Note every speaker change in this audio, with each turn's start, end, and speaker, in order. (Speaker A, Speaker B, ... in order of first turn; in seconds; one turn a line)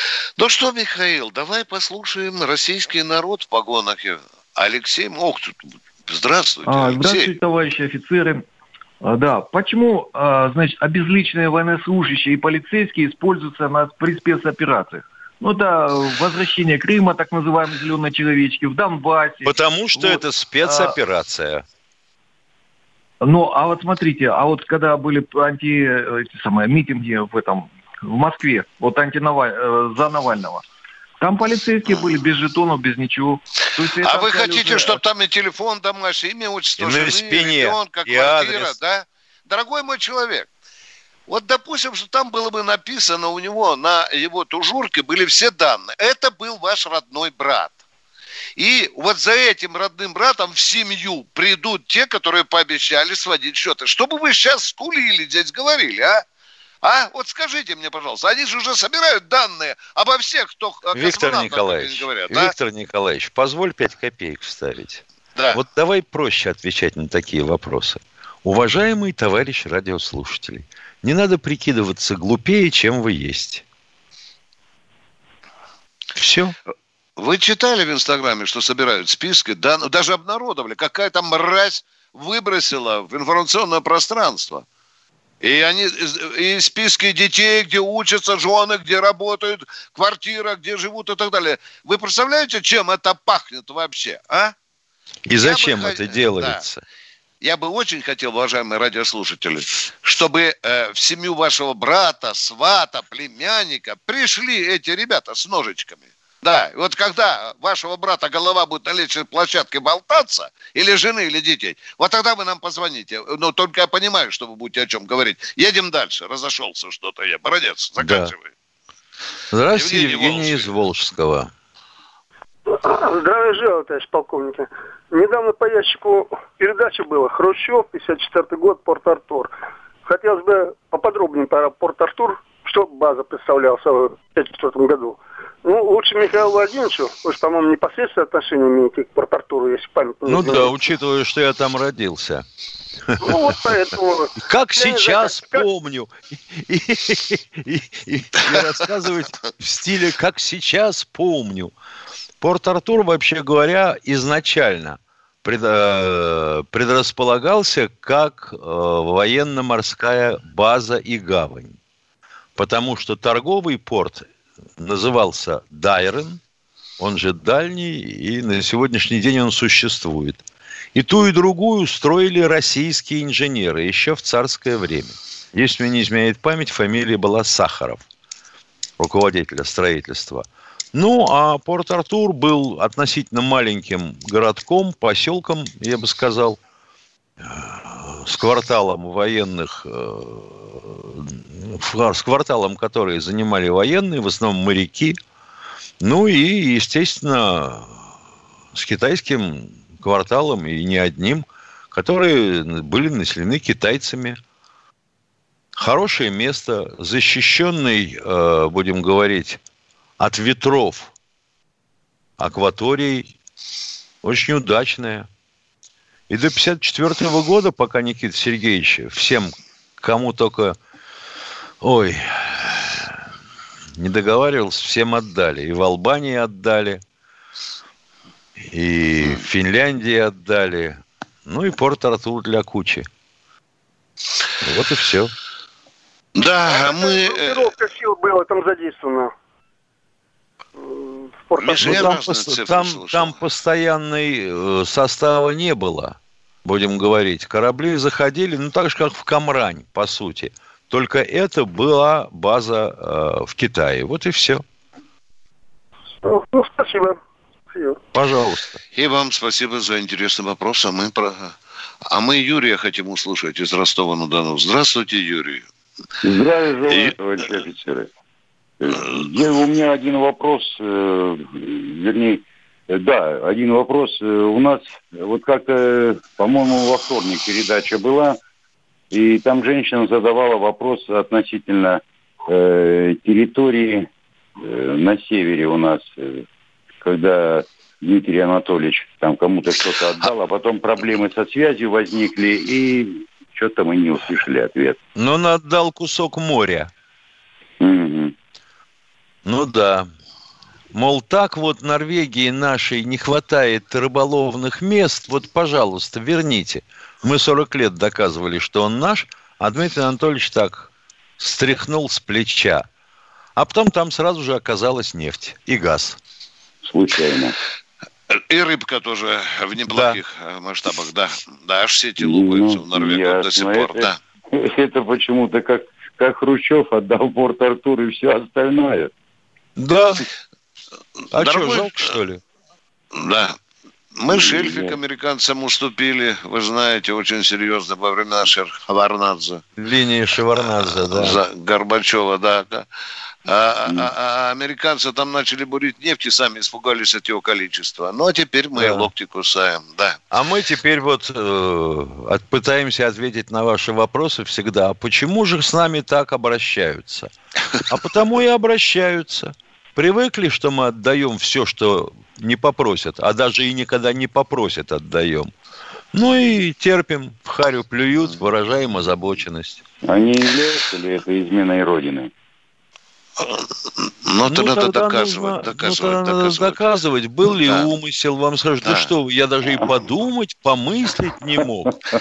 Speaker A: 0.4-7.3
Speaker B: 6.7-8.4
Speaker B: 9.0-21.0
Speaker C: 19.4-21.6
Speaker B: 23.2-30.6
Speaker B: 31.2-35.0
Speaker A: 31.9-32.1
Speaker A: 34.0-40.5
Speaker C: 36.8-38.8
Speaker A: 41.3-47.7
Speaker A: 48.6-56.2
Speaker A: 56.8-62.5
Speaker C: 60.9-73.6
Speaker A: 65.3-65.6
Speaker C: 76.2-76.6
Speaker A: 77.2-84.6
Speaker A: 85.4-94.5
Speaker C: 95.3-96.8
Speaker A: 95.4-96.6
Speaker A: 97.4-118.5
Speaker C: 118.0-118.3
Speaker C: 119.5-121.5
Speaker A: 119.7-120.7
Speaker D: 122.7-129.5
Speaker D: 130.1-140.7
Speaker C: 140.2-142.4
Speaker C: 143.1-143.6
Speaker D: 143.2-145.7
Speaker C: 144.4-151.7
Speaker C: 152.4-161.8
Speaker C: 162.6-166.4
Speaker C: 167.0-170.4
Speaker C: 170.9-178.0
Speaker C: 179.0-186.6
Speaker C: 187.4-195.2
Speaker C: 196.0-198.0
Speaker C: 198.7-204.4
Speaker C: 205.8-209.6
Speaker C: 210.2-211.1
Speaker C: 212.4-213.3
Speaker C: 214.2-215.3
Speaker C: 216.3-220.8
Speaker C: 221.8-223.2
Speaker C: 224.0-227.0
Speaker C: 228.7-233.1
Speaker C: 234.6-235.3
Speaker A: 236.4-237.7
Speaker D: 236.6-239.3
Speaker D: 240.8-241.9
Speaker A: 241.6-243.3
Speaker C: 241.7-254.6
Speaker D: 256.2-257.2
Speaker D: 257.7-258.0
Speaker C: 258.1-258.8
Speaker A: 258.9-261.5
Speaker A: 262.1-265.6
Speaker E: 266.2-268.1
Speaker A: 266.9-267.1
Speaker E: 268.8-278.4
Speaker E: 279.1-286.4
Speaker E: 287.0-295.0
Speaker C: 295.1-296.9
Speaker E: 297.8-298.3
Speaker C: 299.4-300.1
Speaker C: 300.9-312.9
Speaker C: 313.6-316.2
Speaker E: 316.8-317.6
Speaker A: 318.3-324.2
Speaker C: 319.9-320.2
Speaker E: 322.2-329.1
Speaker C: 329.8-330.2
Speaker C: 331.3-332.4
Speaker A: 331.4-332.1
Speaker A: 333.1-333.6
Speaker A: 334.1-339.6
Speaker E: 334.3-335.0
Speaker C: 339.8-341.4
Speaker A: 340.6-342.9
Speaker A: 343.4-350.2
Speaker E: 343.9-344.1
Speaker C: 348.8-349.1
Speaker C: 350.3-357.3
Speaker C: 357.9-365.5
Speaker C: 366.1-369.8
Speaker E: 370.1-372.3
Speaker A: 373.4-373.6
Speaker A: 374.2-376.8
Speaker C: 374.5-381.9
Speaker A: 377.6-377.9
Speaker A: 378.8-379.1